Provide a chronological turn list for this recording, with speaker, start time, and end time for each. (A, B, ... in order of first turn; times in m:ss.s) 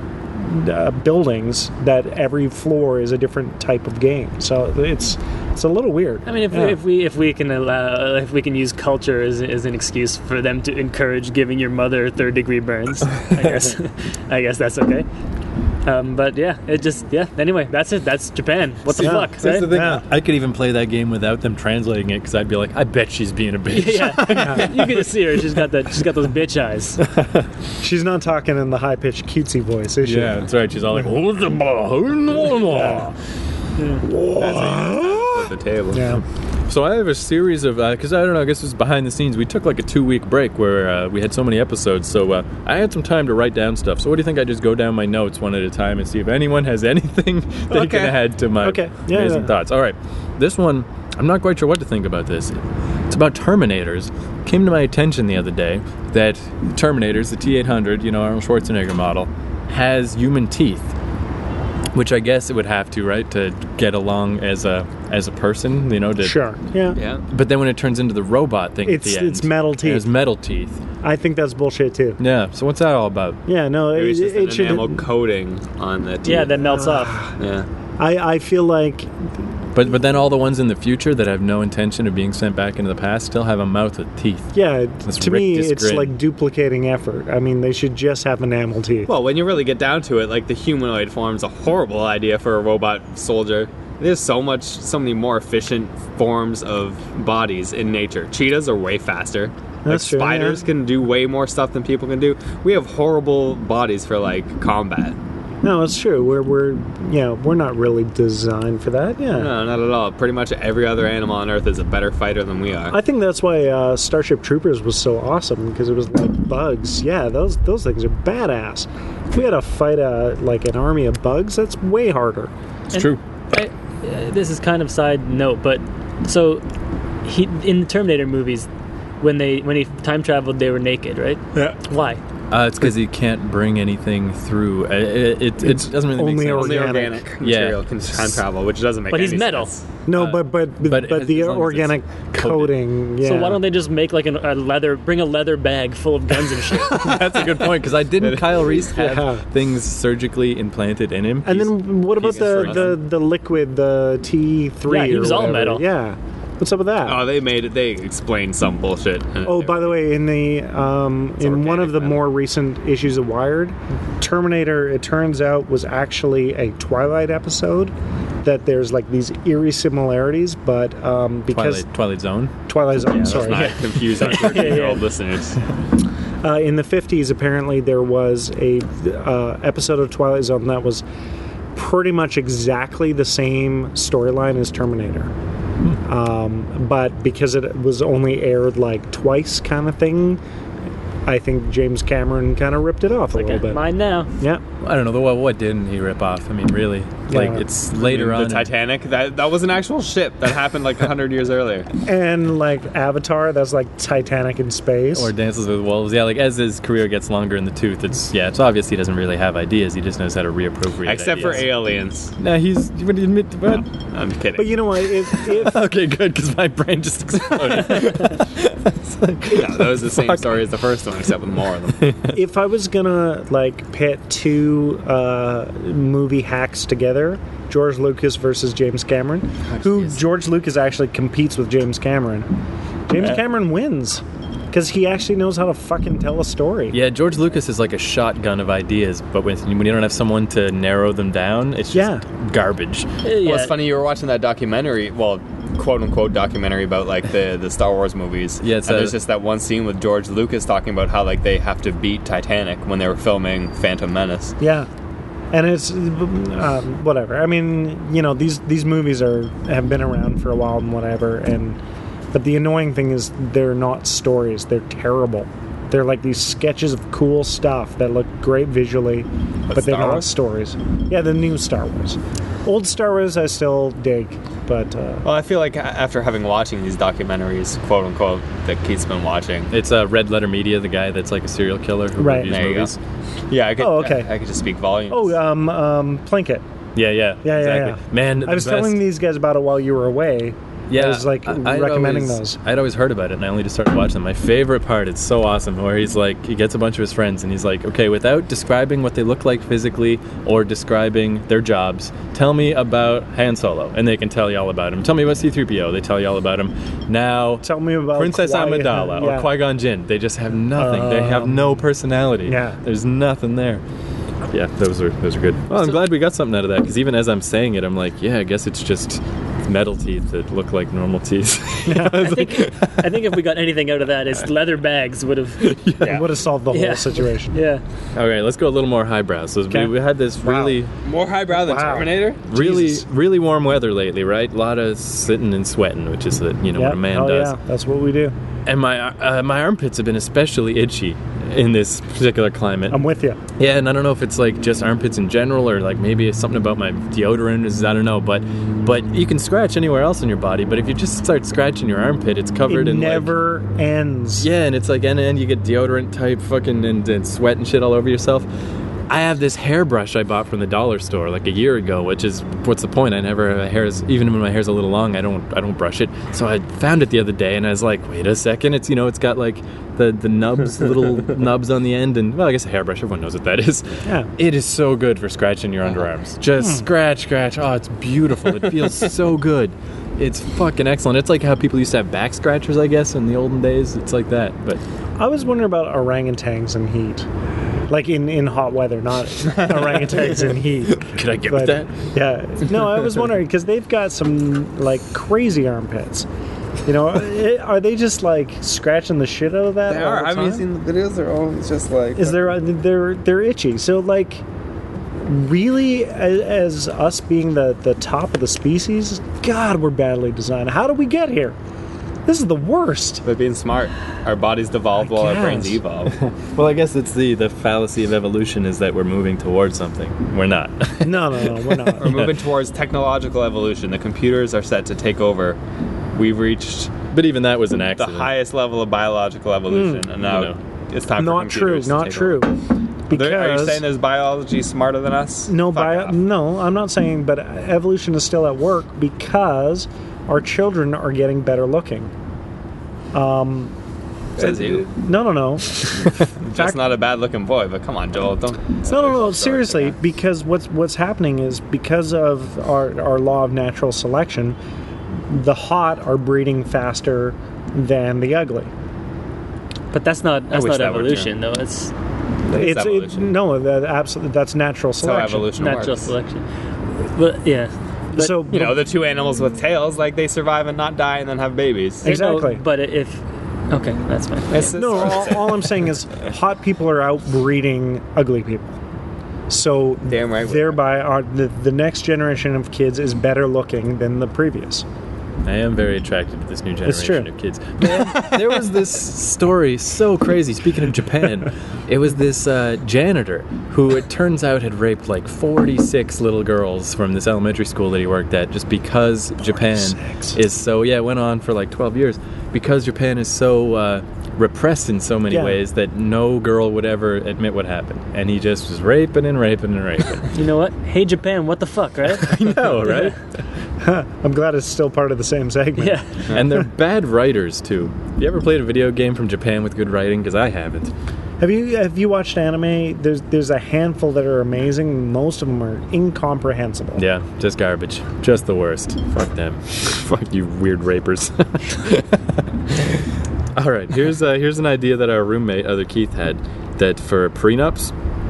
0:00.4-0:06.8 A
0:06.2-0:15.0 B
0:15.8-0:19.8 B
0:18.9-0:25.6 C
0:19.0-0:20.0 A
0:23.7-0:27.0 B
0:27.0-0:27.5 C
0:27.8-0:30.4 A
0:30.0-0:33.1 C
0:32.6-0:33.1 A
0:34.0-0:35.2 A
0:34.4-0:36.0 D
0:35.9-0:36.2 A
0:36.7-1:00.9 C
0:47.7-0:49.5 A
0:47.7-0:48.1 D
1:01.9-1:06.4 C
1:06.2-1:07.0 A
1:06.9-1:07.2 D
1:07.3-1:10.8 C
1:08.8-1:10.0 A
1:11.0-1:12.2 A
1:12.2-1:13.4 C
1:13.5-1:15.0 A
1:13.9-1:16.6 D
1:16.2-1:17.2 B
1:16.6-1:17.3 A
1:17.4-1:17.7 D
1:18.0-1:19.1 A
1:19.7-1:24.5 C
1:24.5-1:29.1 A
1:25.0-1:26.1 C
1:29.1-1:45.2 D
1:39.8-1:40.6 A
1:45.6-1:49.5 A
1:49.3-1:53.0 D
1:52.9-2:02.5 A
2:02.9-2:03.2 C
2:02.9-2:06.6 B
2:07.2-2:08.7 B
2:09.2-2:12.2 B
2:12.5-2:18.4 C
2:15.6-2:17.2 A
2:16.5-2:19.8 D
2:19.1-2:19.7 B
2:20.0-2:23.6 A
2:20.1-2:22.8 C
2:23.2-2:27.1 B
2:26.9-2:33.0 C
2:28.2-2:28.9 D
2:28.9-2:29.4 A
2:31.4-2:37.2 A
2:32.2-2:33.0 D
2:34.9-2:35.8 B
2:37.0-2:40.0 D
2:39.4-2:47.9 A
2:41.4-2:42.2 D
2:48.4-2:51.9 A
2:51.5-2:52.5 C
2:52.7-2:53.8 A
2:53.0-2:55.6 D
2:53.3-2:53.7 C
2:54.3-2:55.1 B
2:56.4-3:01.0 A
3:01.7-3:05.3 A
3:06.0-3:10.4 A
3:11.2-3:13.8 A
3:13.3-3:14.3 B
3:14.8-3:18.7 C
3:17.3-3:17.6 A
3:17.9-3:21.9 D
3:22.0-3:25.3 A
3:25.1-3:31.7 C
3:31.0-3:32.3 D
3:32.4-3:33.8 C
3:34.1-3:35.0 D
3:34.6-3:35.8 A
3:35.3-3:40.6 C
3:39.5-3:42.3 D
3:42.3-3:52.5 A
3:53.1-3:57.0 A
3:56.9-4:03.1 C
4:01.9-4:02.2 A
4:03.2-4:03.8 B
4:03.4-4:14.5 D
4:08.6-4:09.2 C
4:14.6-4:14.9 A
4:15.5-4:21.8 A
4:22.3-4:35.2 A
4:29.7-4:30.3 D
4:35.2-4:39.7 D
4:39.7-4:43.0 C
4:42.2-4:42.5 A
4:42.4-4:42.9 D
4:43.5-4:45.4 D
4:43.8-4:44.3 A
4:45.1-4:46.6 A
4:46.9-4:49.0 C
4:47.4-4:52.6 A
4:50.9-5:13.8 C
5:07.6-5:09.5 A
5:10.8-5:11.8 A
5:12.4-5:12.8 A
5:14.5-5:23.2 C
5:21.8-5:22.3 A
5:22.1-5:25.7 B
5:25.6-5:26.2 C
5:26.0-5:26.2 D
5:26.0-5:27.6 A
5:26.7-5:27.8 B
5:28.1-5:30.9 C
5:29.7-5:30.8 A
5:31.0-5:32.4 D
5:31.5-5:33.0 A
5:32.5-5:37.6 C
5:36.7-5:38.3 A
5:38.6-5:43.0 C
5:42.9-5:43.4 A
5:43.6-5:53.4 C
5:52.7-5:54.5 A
5:54.4-5:58.5 C
5:59.1-6:24.8 C
6:16.6-6:16.9 A
6:25.2-6:27.2 A
6:27.9-6:36.2 A
6:29.7-6:30.1 D
6:30.8-6:32.0 C
6:36.8-6:40.6 A
6:39.8-6:42.5 D
6:42.2-6:44.4 A
6:45.2-6:51.6 A
6:52.2-6:53.2 A
6:53.2-6:56.1 D
6:55.0-6:55.8 A
6:56.1-7:02.4 C
7:01.0-7:02.1 A
7:02.0-7:05.6 D
7:06.1-7:07.0 D
7:07.1-7:08.3 C
7:08.0-7:12.5 D
7:09.7-7:10.1 A
7:10.2-7:10.6 C
7:11.2-7:12.6 A
7:13.1-7:13.8 A
7:13.1-7:16.2 D
7:15.5-7:22.1 A
7:23.1-7:23.7 A
7:24.4-7:24.8 D
7:24.4-7:26.8 A
7:26.4-7:30.0 D
7:28.8-7:34.6 A
7:35.3-7:38.7 A
7:39.9-7:41.9 B
7:40.5-7:41.3 D
7:42.5-7:43.3 D
7:42.5-7:45.5 A
7:45.0-7:46.1 D
7:45.6-7:46.4 B
7:47.1-7:48.3 B
7:48.1-7:48.8 A
7:48.5-7:52.1 D
7:52.0-7:54.7 B
7:52.0-7:52.6 A
7:54.5-7:55.8 D
7:54.7-7:58.8 A
7:59.5-8:04.8 A
8:00.1-8:00.8 D
8:05.4-8:30.3 C
8:06.8-8:07.3 A
8:19.5-8:20.4 A
8:25.3-8:25.6 A
8:30.3-8:33.1 B
8:32.1-8:33.2 C
8:33.8-8:36.0 A
8:35.8-8:36.2 B
8:36.3-8:40.9 C
8:41.4-8:47.0 A
8:47.0-8:53.0 C
8:53.5-8:57.9 C